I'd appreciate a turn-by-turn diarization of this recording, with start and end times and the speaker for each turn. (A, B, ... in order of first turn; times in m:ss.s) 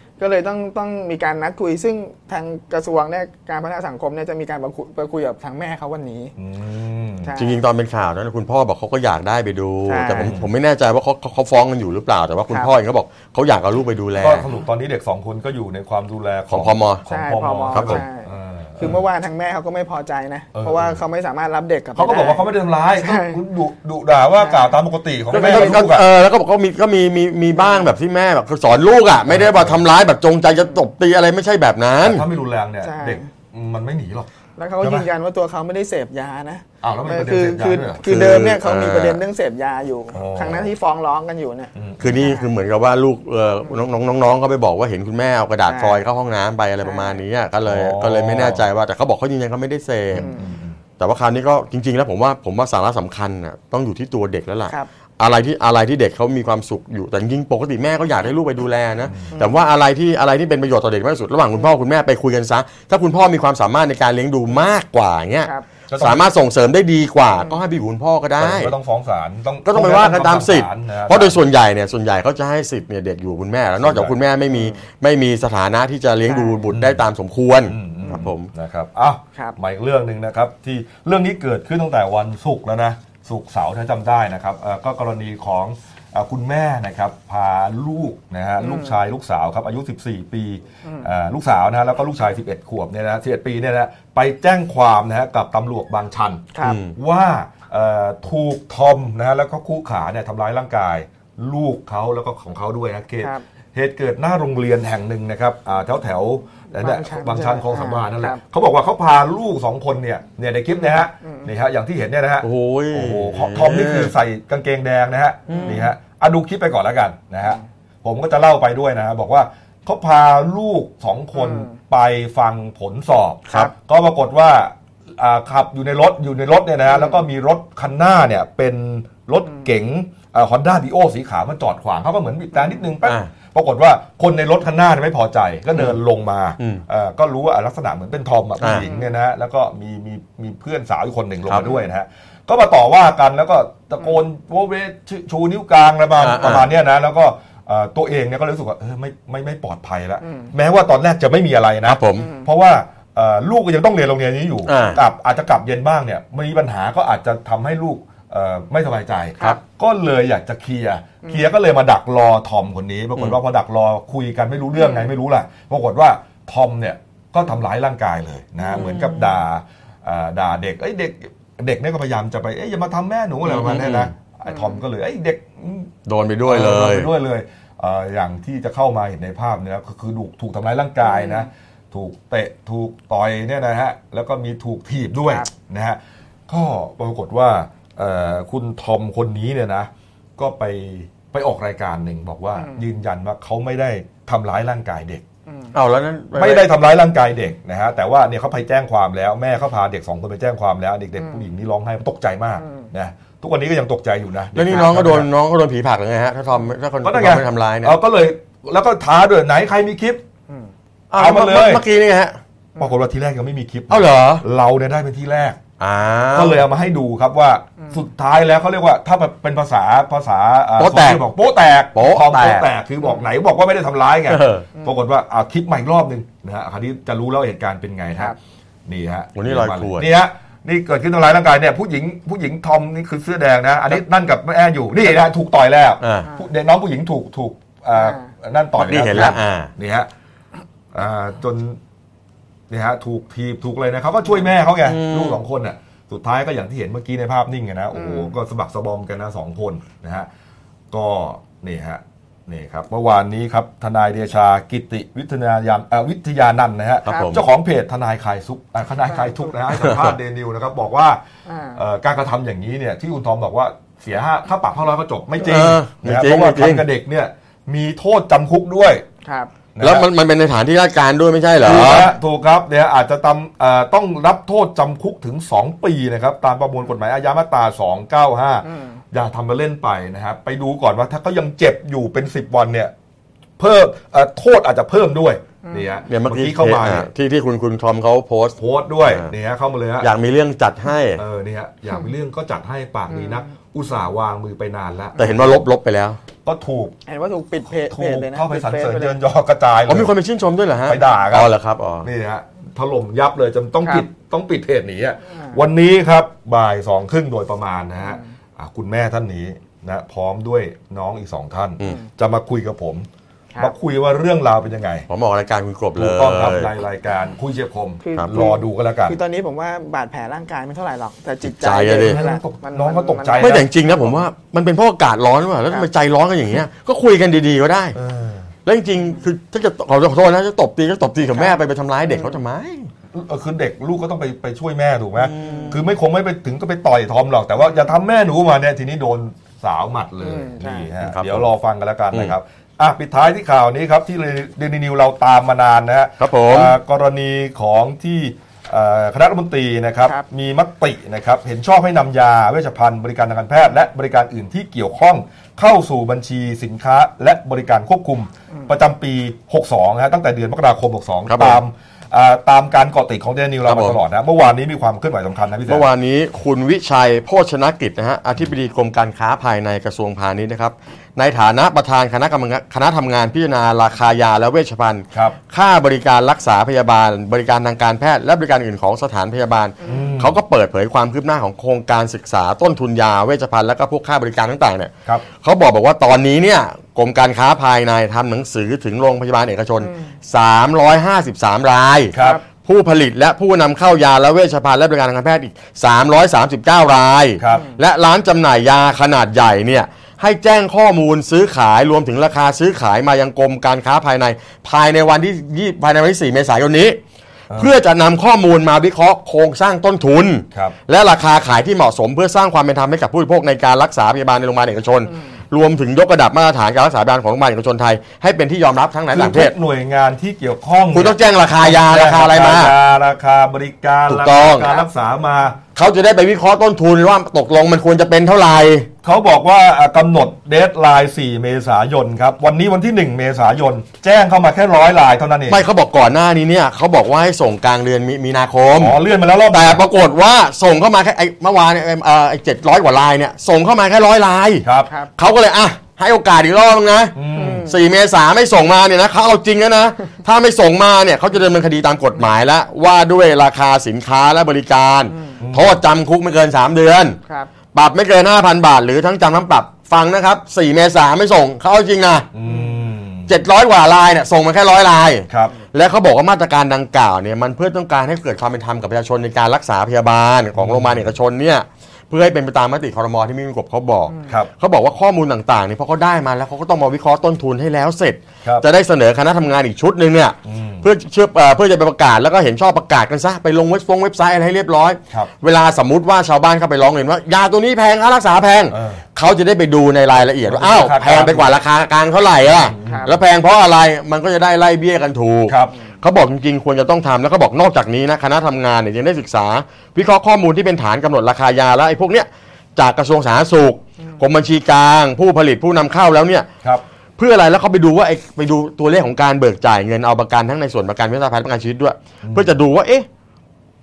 0:00.2-0:06.3 A
0:06.4-0:07.3 B
0:07.2-0:07.6 A
0:07.4-0:14.4 C
0:09.9-0:10.4 A
0:10.2-0:10.5 B
0:14.2-0:19.0 B
0:16.5-0:17.0 C
0:17.1-0:23.4 A
0:17.7-0:18.0 C
0:20.6-0:21.0 B
0:22.0-0:26.1 B
0:24.4-0:24.7 A
0:25.3-0:32.3 C
0:27.6-0:27.8 A
0:29.3-0:29.8 B
0:32.0-0:34.3 B
0:32.8-0:33.3 A
0:34.6-0:42.5 A
0:34.8-0:35.1 B
0:36.8-0:38.0 B
0:38.0-0:39.2 C
0:40.1-0:40.7 B
0:41.8-0:42.3 B
0:42.0-0:50.3 C
0:45.7-0:46.0 A
0:46.8-0:47.2 A
0:47.6-0:48.6 B
0:50.1-0:50.5 A
0:50.1-0:50.8 B
0:51.0-1:08.7 C
0:59.1-0:59.3 B
0:59.3-0:59.6 A
1:05.9-1:06.3 B
1:08.4-1:11.4 B
1:09.6-1:18.5 C
1:13.8-1:14.2 B
1:14.5-1:14.8 A
1:16.3-1:16.6 A
1:16.7-1:17.0 B
1:17.7-2:55.9 B
1:28.6-1:29.0 A
1:36.5-1:36.8 A
1:36.6-1:37.0 C
1:46.8-1:48.4 A
1:50.8-1:51.5 A
1:52.4-1:54.1 C
1:55.5-1:55.9 A
1:55.5-1:55.8 C
2:01.3-2:01.8 A
2:06.9-2:07.2 A
2:12.6-2:12.8 A
2:13.0-2:13.3 C
2:18.6-2:18.9 C
2:18.7-2:19.2 A
2:26.2-2:26.7 C
2:30.2-2:30.5 A
2:31.9-2:32.3 C
2:32.2-2:32.5 A
2:34.7-2:35.0 C
2:44.8-2:45.1 A
2:48.7-2:49.3 A
2:53.4-2:54.1 C
2:54.5-2:54.8 A
2:56.1-2:57.1 C
2:56.4-3:15.2 B
3:01.0-3:01.5 A
3:12.6-3:12.8 A
3:15.5-3:15.7 A
3:15.7-3:16.7 C
3:16.4-3:25.3 B
3:21.2-3:21.4 A
3:22.6-3:22.9 A
3:24.5-3:28.0 C
3:27.0-3:30.2 B
3:31.1-3:32.4 C
3:31.2-3:31.8 B
3:32.8-3:35.6 B
3:33.9-3:34.4 C
3:35.8-3:36.6 C
3:36.3-3:48.4 B
3:40.8-3:41.2 C
3:42.0-3:42.7 C
3:44.3-3:44.7 C
3:48.9-4:00.1 B
3:49.4-3:50.1 C
3:56.0-3:56.3 C
3:58.0-3:58.3 A
3:58.8-3:59.7 C
4:00.9-4:01.8 B
4:02.7-4:10.3 B
4:04.8-4:05.4 C
4:07.9-4:08.3 A
4:10.9-4:21.2 B
4:17.1-4:17.4 C
4:19.1-4:19.4 A
4:19.7-4:20.2 C
4:21.5-4:21.8 A
4:21.7-4:29.1 B
4:25.4-4:26.8 C
4:29.2-4:29.5 A
4:29.8-4:30.1 B
4:29.8-4:32.1 C
4:31.6-4:42.9 B
4:38.6-4:39.0 A
4:43.6-4:47.1 B
4:45.6-4:46.0 A
4:46.1-4:49.3 C
4:48.6-4:50.1 B
4:50.0-4:51.2 C
4:51.2-4:55.6 B
4:53.1-4:53.5 A
4:55.2-4:56.2 C
4:56.4-4:57.0 B
4:57.1-4:59.2 A
4:57.6-5:00.1 B
4:59.9-5:02.1 C
5:00.9-5:13.1 B
5:05.3-5:05.6 A
5:08.0-5:08.2 A
5:13.6-5:15.1 B
5:15.1-5:16.7 C
5:16.0-5:19.2 B
5:18.0-5:24.2 A
5:21.4-5:22.2 C
5:22.0-5:23.7 B
5:23.4-5:28.0 C
5:28.0-5:28.5 B
5:28.6-5:32.9 C
5:32.1-5:32.3 A
5:33.1-6:05.9 B
5:35.2-5:35.8 C
5:35.4-5:35.8 A
5:40.2-5:40.9 A
5:41.0-5:41.5 C
5:46.2-5:46.8 C
6:01.3-6:01.6 C
6:03.7-6:04.0 C
6:05.7-6:47.0 C
6:19.8-6:20.1 A
6:19.8-6:20.4 B
6:29.8-6:30.1 A
6:32.1-6:32.4 B
6:32.2-6:32.4 A
6:37.4-6:37.7 B
6:37.5-6:37.8 A
6:47.5-6:47.8 B
6:47.6-6:59.6 C
6:59.1-7:05.6 B
7:00.9-7:02.8 C
7:04.1-7:04.7 C
7:05.8-7:08.9 C
7:09.0-7:15.6 B
7:15.5-7:19.0 C
7:18.8-7:19.8 B
7:19.5-7:24.6 C
7:24.6-7:24.9 B
7:25.2-7:37.2 C
7:27.2-7:27.7 B
7:27.3-7:27.8 A
7:35.1-7:35.4 A
7:35.4-7:35.8 B
7:37.3-7:37.5 A
7:37.7-7:42.3 C
7:42.3-7:43.4 B
7:42.5-7:42.8 A
7:43.3-8:26.5 C
7:50.6-7:51.1 B
8:00.4-8:00.9 B
8:08.7-8:09.0 B
8:10.4-8:11.6 B
8:12.4-8:13.2 B
8:12.8-8:13.2 A
8:15.5-8:15.8 B
8:27.2-8:33.1 C
8:32.2-8:32.5 B